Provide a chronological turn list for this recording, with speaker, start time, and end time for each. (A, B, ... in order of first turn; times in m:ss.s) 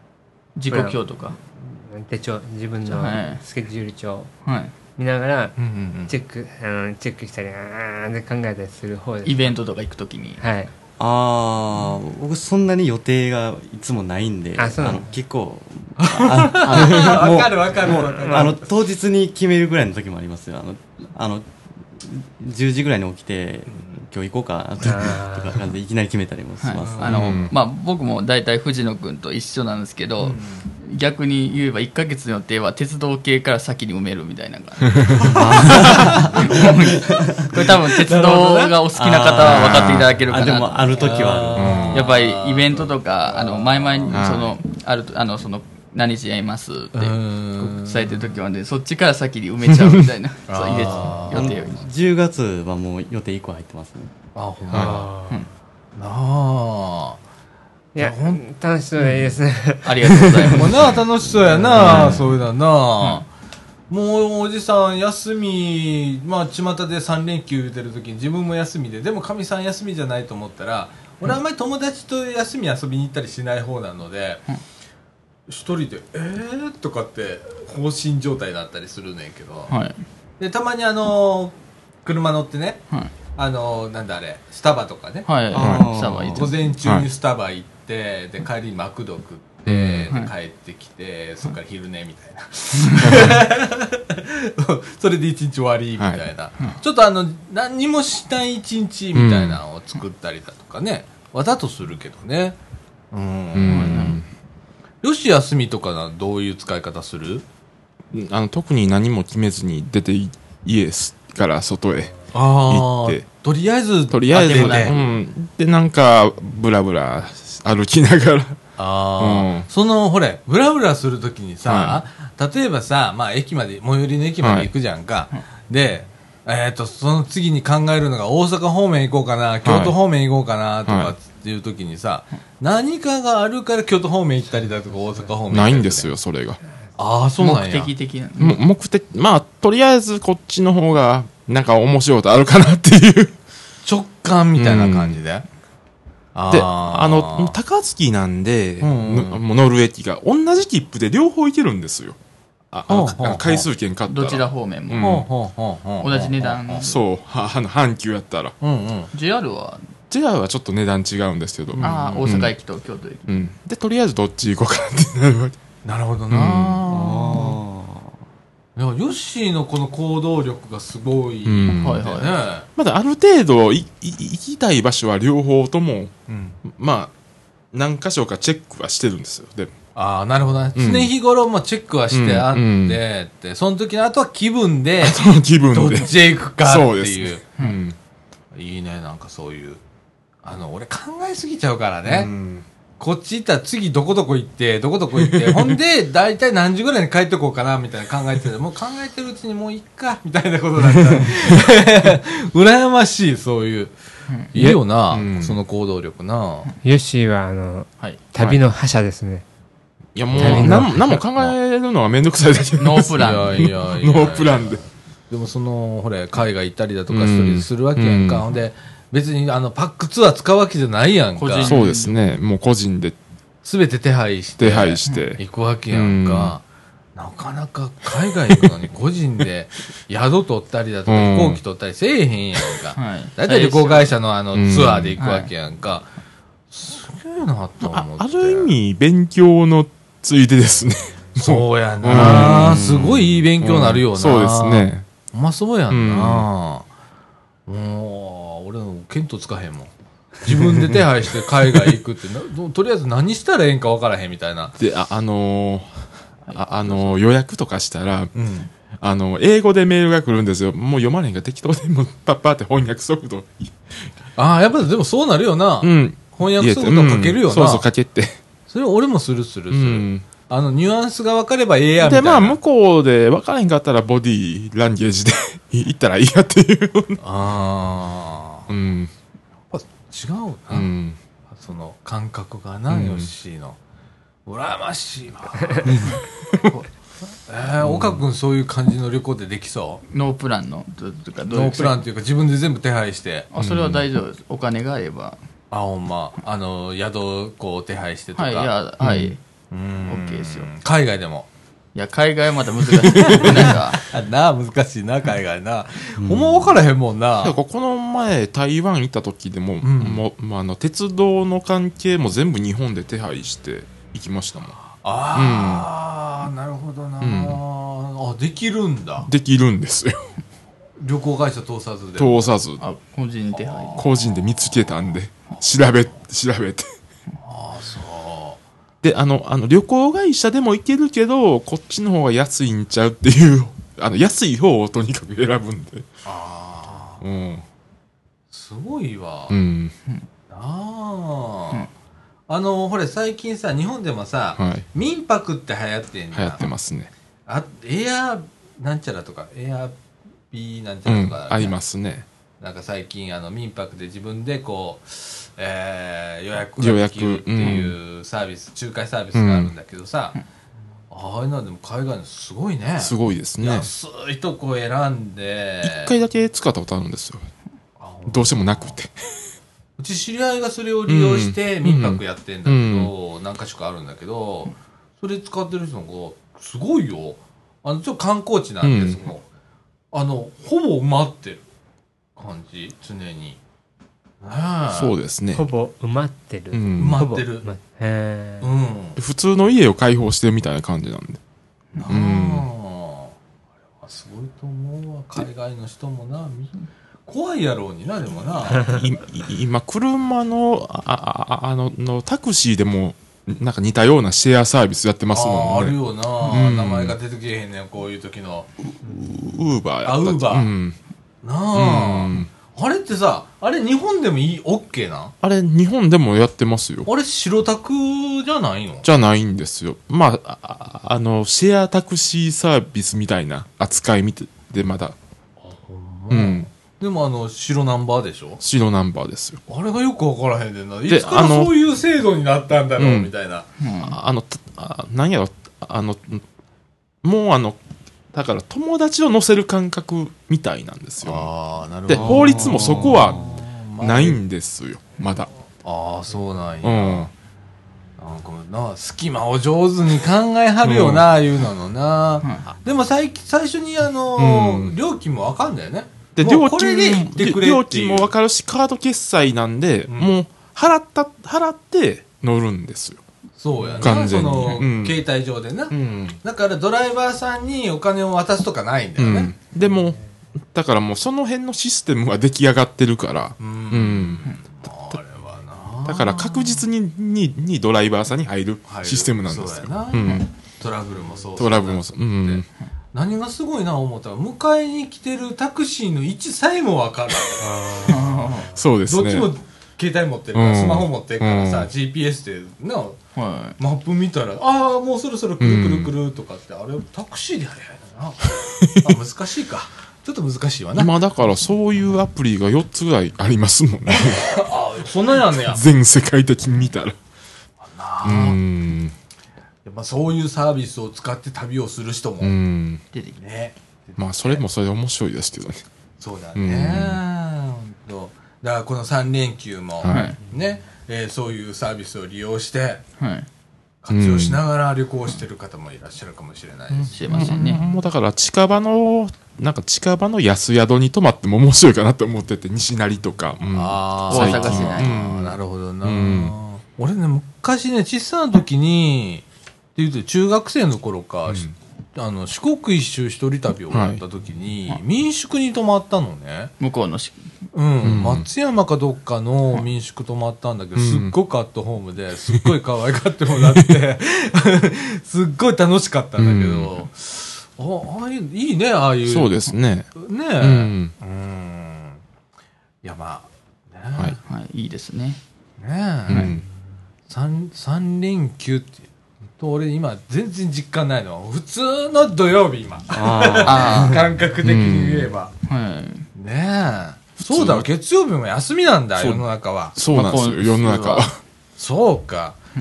0:00.6-0:01.4 A
0:00.7-0:01.0 B
0:01.6-0:04.3 B
0:02.8-0:03.4 A
0:04.4-0:04.7 A
0:04.9-0:09.5 B
0:05.6-0:06.1 C
0:09.2-0:10.4 A
0:10.4-0:10.7 B
0:11.0-0:27.2 D
0:14.6-0:15.1 B
0:16.0-0:18.7 C
0:17.9-0:18.5 B
0:24.8-0:25.6 B
0:26.6-0:41.3 A
0:26.8-0:27.4 C
0:27.0-0:27.5 E
0:30.2-0:30.7 C
0:35.2-0:38.8 C
0:35.2-0:37.5 D
0:38.9-0:42.1 D
0:39.4-0:40.1 E
0:40.9-0:44.0 C
0:41.6-0:42.0 E
0:41.9-0:51.9 A
0:44.1-0:44.5 E
0:46.9-0:48.2 C
0:50.5-0:51.6 C
0:50.9-0:54.1 D
0:54.3-0:55.3 C
0:54.7-0:55.1 E
0:54.8-0:55.3 B
0:56.0-0:57.2 C
0:57.9-1:00.6 B
0:58.0-0:58.4 C
0:59.8-1:01.0 A
1:00.3-1:02.2 D
1:00.5-1:03.3 C
1:01.8-1:02.2 A
1:01.8-1:02.2 E
1:03.9-1:14.4 C
1:15.5-1:19.7 C
1:19.7-1:20.0 A
1:20.4-1:22.8 C
1:23.3-1:25.3 C
1:25.2-1:26.6 A
1:25.5-1:26.5 D
1:25.6-1:25.9 E
1:26.3-1:42.6 C
1:26.8-1:27.1 E
1:29.7-1:30.1 E
1:32.8-1:33.1 A
1:33.0-1:33.4 E
1:39.1-1:39.6 E
1:43.1-1:44.1 C
1:43.5-1:44.3 E
1:43.6-1:44.2 A
1:45.0-1:47.4 C
1:48.1-1:53.2 E
1:52.3-1:55.0 C
1:54.1-1:58.6 E
1:54.3-1:55.2 A
1:58.8-2:16.1 C
1:59.2-1:59.7 E
2:01.6-2:02.0 E
2:04.4-2:04.7 E
2:09.6-2:10.0 E
2:10.8-2:11.1 E
2:15.5-2:16.6 E
2:17.0-2:17.9 C
2:17.4-2:18.6 A
2:18.4-2:23.3 E
2:23.8-2:25.4 C
2:24.6-2:25.2 E
2:26.3-2:27.6 C
2:26.5-2:32.2 E
2:28.8-2:29.4 C
2:32.7-2:35.3 E
2:32.9-2:33.7 C
2:34.1-2:35.2 A
2:35.0-2:36.8 C
2:36.0-2:37.0 A
2:36.8-2:38.5 E
2:38.6-2:39.1 C
2:39.1-2:39.8 A
2:40.1-2:42.5 E
2:41.8-2:43.3 A
2:43.3-2:45.6 E
2:45.8-2:47.6 C
2:46.3-2:46.8 E
2:46.9-2:48.2 D
2:48.8-2:52.7 C
2:51.4-2:52.1 E
2:51.7-2:52.4 A
2:52.8-2:56.1 E
2:56.3-2:56.6 C
2:56.6-2:57.1 E
2:57.7-2:59.7 E
2:59.9-3:07.4 C
3:00.8-3:01.1 E
3:02.1-3:03.0 E
3:05.0-3:08.0 E
3:08.5-3:09.8 C
3:10.4-3:12.3 C
3:12.0-3:12.6 E
3:13.0-3:23.9 C
3:15.2-3:15.8 E
3:24.5-3:26.7 C
3:24.5-3:25.6 E
3:26.8-3:29.4 B
3:30.1-3:34.8 E
3:30.3-3:31.2 A
3:30.3-3:31.2 B
3:32.8-3:33.7 A
3:33.2-3:41.8 C
3:37.1-3:38.4 E
3:41.4-3:42.1 A
3:41.6-3:43.2 E
3:43.6-3:46.6 C
3:44.6-3:46.6 E
3:47.2-3:56.1 C
3:51.1-3:51.6 E
3:52.9-3:54.2 A
3:54.5-3:55.2 E
3:55.2-3:55.5 A
3:56.7-3:58.7 C
3:57.8-4:05.1 E
4:01.4-4:06.8 C
4:02.1-4:03.2 D
4:05.9-4:06.5 E
4:07.7-4:14.7 C
4:10.5-4:12.0 E
4:14.8-4:18.3 E
4:16.5-4:17.1 A
4:18.3-4:18.7 C
4:19.0-4:23.7 E
4:24.4-4:27.9 C
4:25.8-4:28.4 E
4:28.7-4:32.6 C
4:29.7-4:30.3 E
4:32.0-4:37.2 E
4:37.2-4:38.7 C
4:38.7-4:39.1 E
4:39.7-4:40.9 C
4:40.7-4:41.2 E
4:41.5-4:43.8 C
4:42.9-4:43.3 E
4:44.4-4:46.9 C
4:46.0-4:46.7 E
4:47.5-4:50.0 C
4:47.8-4:48.2 E
4:50.1-4:52.0 A
4:51.5-4:53.5 C
4:53.5-4:55.4 A
4:53.6-4:54.0 E
4:55.7-4:58.7 C
4:58.4-4:59.4 A
4:59.0-4:59.3 E
4:59.7-5:01.5 C
5:00.1-5:00.7 A
5:01.9-5:04.0 A
5:03.0-5:07.6 C
5:06.2-5:06.7 D
5:07.4-5:14.8 E
5:09.8-5:10.2 C
5:14.9-5:19.3 C
5:15.3-5:15.9 E
5:17.2-5:17.6 E
5:19.2-5:20.2 E
5:21.0-5:22.6 C
5:22.2-5:22.8 E
5:22.8-5:24.0 A
5:23.5-5:24.1 C
5:24.0-5:26.9 E
5:27.4-5:28.6 C
5:29.0-5:36.1 E
5:36.2-5:37.2 C
5:37.2-5:37.6 E
5:38.5-5:39.6 C
5:39.5-5:39.9 E
5:40.5-5:41.9 C
5:42.5-5:46.7 C
5:44.6-5:44.8 E
5:46.3-5:47.1 E
5:47.5-5:50.0 C
5:50.5-5:51.8 C
5:51.0-5:52.2 E
5:52.6-6:00.4 C
5:56.8-5:58.0 E
5:59.3-5:59.7 E
6:01.1-6:06.1 C
6:03.0-6:03.9 E
6:05.8-6:07.4 E
6:08.0-6:08.9 C
6:08.3-6:09.1 E
6:10.0-6:19.4 C
6:11.1-6:13.1 E
6:18.8-6:19.2 E
6:20.1-6:21.6 C
6:22.4-6:23.6 C
6:24.4-6:25.1 C
6:24.9-6:25.6 E
6:25.5-6:28.7 B
6:26.7-6:27.2 E
6:27.0-6:27.7 C
6:28.6-6:29.2 C
6:29.2-6:31.4 E
6:32.0-6:33.3 C
6:32.1-6:32.7 E
6:34.0-6:39.0 C
6:38.7-6:47.1 E
6:45.3-6:48.7 C
6:49.0-6:51.0 E
6:50.0-6:50.7 C
6:51.4-6:55.3 C
6:51.7-6:52.5 E
6:55.4-6:57.1 E
6:57.0-6:59.0 C
6:59.0-7:05.1 E
7:05.6-7:08.6 C
7:06.3-7:06.7 E
7:08.6-7:09.6 E
7:09.7-7:13.7 C
7:11.1-7:11.7 E
7:13.0-7:13.3 E
7:13.8-7:14.2 A
7:14.0-7:16.4 E
7:17.2-7:17.8 E
7:18.3-7:21.5 E
7:21.2-7:24.4 C
7:22.1-7:25.5 E
7:22.1-7:23.6 D
7:25.8-7:27.3 C
7:26.8-7:27.3 E
7:28.2-7:38.3 C
7:30.8-7:31.3 E
7:34.4-7:34.9 E
7:36.3-7:43.2 E
7:40.1-7:40.3 C
7:43.6-7:49.5 C
7:44.0-7:45.2 E
7:45.9-7:46.4 E
7:49.2-7:55.2 E
7:53.6-7:56.7 C
7:56.0-8:00.5 E
7:58.8-8:02.6 C
8:00.2-8:00.4 A
8:01.6-8:02.6 E
8:03.1-8:08.2 C
8:07.6-8:08.1 E
8:08.0-8:08.7 A
8:08.7-8:09.5 E
8:09.0-8:13.2 C
8:10.5-8:11.9 E
8:13.4-8:13.8 A
8:13.8-8:21.1 C
8:15.6-8:16.1 E
8:18.8-8:19.2 E
8:20.9-8:24.6 E
8:24.1-8:25.8 C
8:25.5-8:27.2 E
8:27.8-8:28.6 C
8:28.2-8:29.1 E
8:29.8-8:32.5 C
8:32.4-8:33.0 E
8:33.1-8:33.4 A
8:33.4-8:34.6 C
8:34.2-8:35.8 E
8:36.2-8:43.0 C
8:36.6-8:37.2 E
8:40.0-8:40.4 E
8:40.0-8:40.4 A
8:43.2-8:43.5 A
8:44.0-8:48.0 C
8:44.1-8:44.6 E
8:47.0-8:56.6 E
8:47.1-8:47.8 A
8:53.7-8:59.4 C
8:54.3-8:55.1 A
9:00.0-9:06.7 C
9:01.5-9:01.7 E
9:03.9-9:04.2 E
9:06.8-9:07.4 A
9:07.7-9:22.2 C
9:08.0-9:08.5 E
9:11.0-9:11.3 E
9:13.7-9:14.0 E
9:16.4-9:17.0 E
9:19.2-9:21.1 E
9:23.0-9:24.4 C
9:24.4-9:25.4 A
9:25.8-9:26.6 C
9:26.3-9:26.6 E
9:27.3-9:29.0 C
9:29.6-9:35.5 C
9:33.1-9:34.3 D
9:33.6-9:34.2 A
9:34.6-9:35.3 E
9:35.6-9:36.3 A
9:36.4-9:40.0 C
9:37.4-9:37.9 E
9:39.2-9:39.4 E
9:39.9-9:41.4 E
9:40.1-9:41.2 A
9:41.8-9:42.6 C